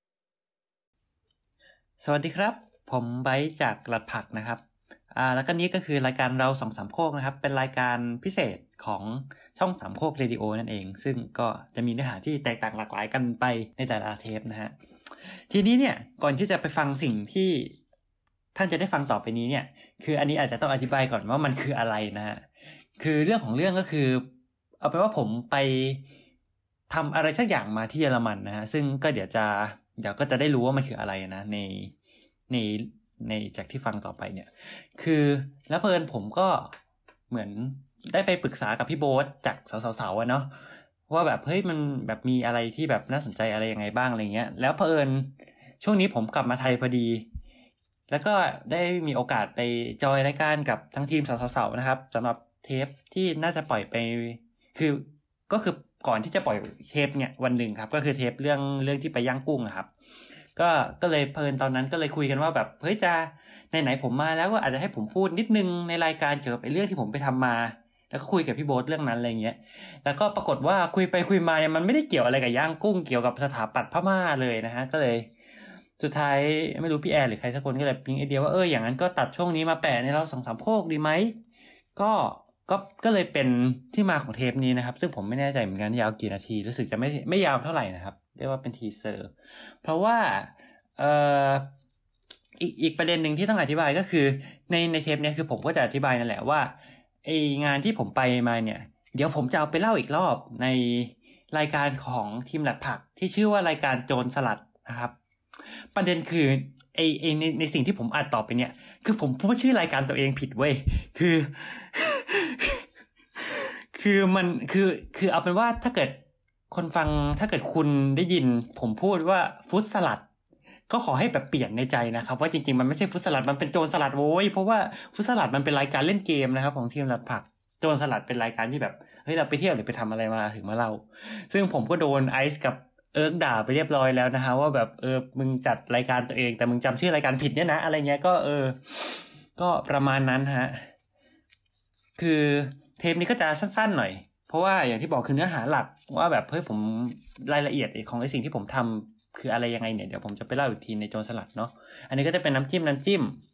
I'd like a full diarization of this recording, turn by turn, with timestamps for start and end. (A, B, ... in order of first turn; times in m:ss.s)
0:02.0-0:04.6 A
0:05.1-0:17.8 A
0:18.5-0:22.4 A
0:23.0-0:24.3 A
0:24.8-0:26.0 A
0:26.9-0:31.9 A
0:32.5-0:36.7 A
0:37.3-0:47.2 A
0:48.1-0:59.9 A
1:00.5-1:15.3 A
1:16.0-1:21.4 A
1:22.0-1:31.7 A
1:32.6-1:52.8 A
1:53.4-2:00.2 A
2:00.9-2:20.9 A
2:22.2-2:33.4 A